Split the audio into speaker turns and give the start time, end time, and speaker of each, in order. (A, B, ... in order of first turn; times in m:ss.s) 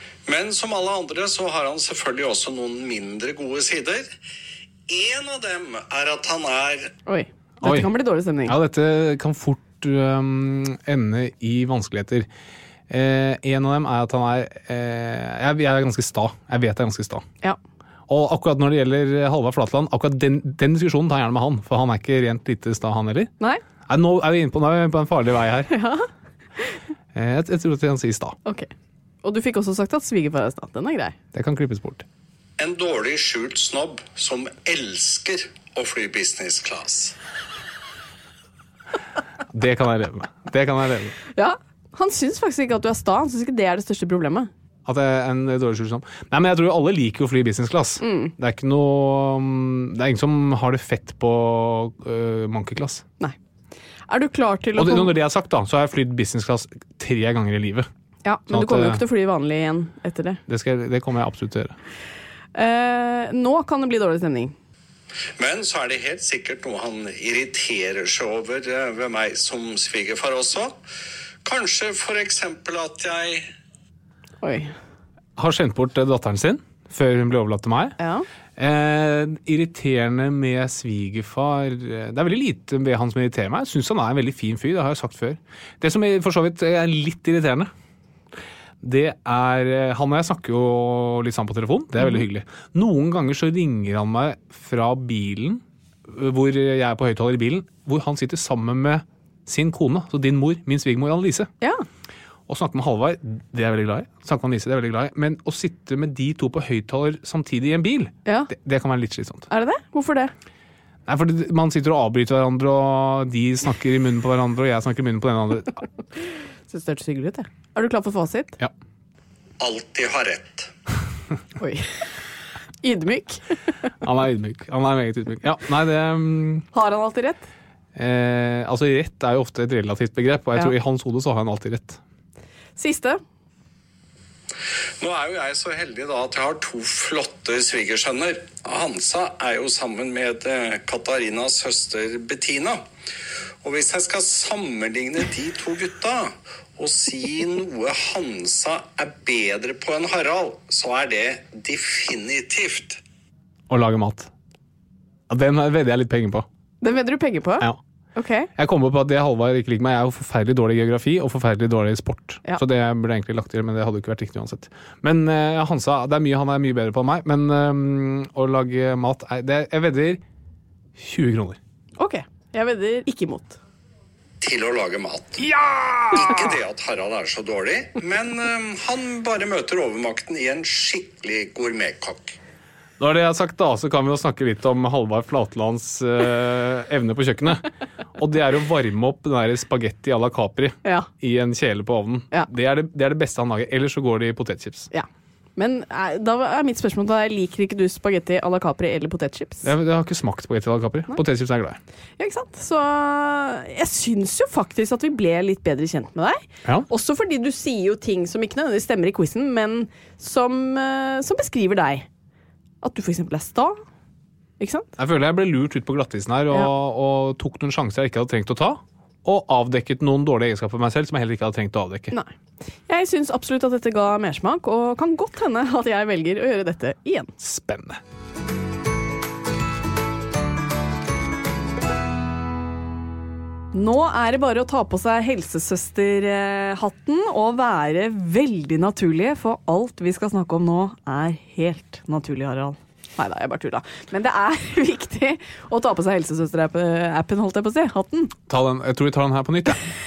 0:00.3-0:04.1 A
0:04.9-0:06.9 A
0:07.1-0:08.6 B
0:07.6-0:07.9 C
0:08.4-0:12.3 C
0:12.9-0:17.3 C
0:18.1-0:23.3 C
0:23.9-0:25.7 C
0:25.7-0:26.1 B
0:27.1-0:28.4 C
0:29.2-0:31.2 B
0:31.3-0:32.0 C
0:32.6-0:37.2 A
0:39.5-0:41.2 C
0:41.3-0:44.5 B
0:44.8-0:53.0 C
0:48.0-0:48.3 B
0:54.1-0:55.1 B
0:54.8-0:57.9 C
0:58.2-1:00.4 B
0:58.5-0:59.0 C
1:00.5-1:01.8 C
1:02.6-1:04.6 B
1:05.4-1:10.8 A
1:11.4-1:13.5 A
1:14.4-1:14.8 B
1:15.4-1:18.0 C
1:18.0-1:18.3 B
1:18.6-1:27.7 C
1:28.8-1:41.5 C
1:41.6-1:41.9 B
1:42.5-1:49.5 C
1:48.3-1:48.5 B
1:49.5-1:50.3 B
1:51.1-1:55.8 C
1:56.7-1:58.6 B
1:59.6-2:00.7 A
2:01.6-2:02.1 B
2:02.8-2:03.9 B
2:04.0-2:06.7 C
2:06.7-2:07.5 B
2:07.9-2:12.0 C
2:12.8-2:13.2 B
2:15.0-2:22.8 A
2:23.6-2:33.0 A
2:33.7-2:34.3 C
2:35.3-2:36.4 C
2:36.8-2:38.5 B
2:38.6-2:50.2 C
2:51.0-2:51.6 C
2:52.0-2:53.6 B
2:54.4-2:55.4 A
2:55.5-2:56.2 C
2:56.1-3:02.4 A
3:03.0-3:14.9 C
3:10.8-3:11.1 B
3:14.9-3:19.7 B
3:19.6-3:21.8 C
3:22.2-3:32.1 B
3:32.8-3:33.8 B
3:34.6-3:34.9 B
3:35.0-3:42.1 C
3:42.9-3:47.3 B
3:47.4-3:48.0 C
3:53.7-4:08.3 B
4:08.5-4:09.9 C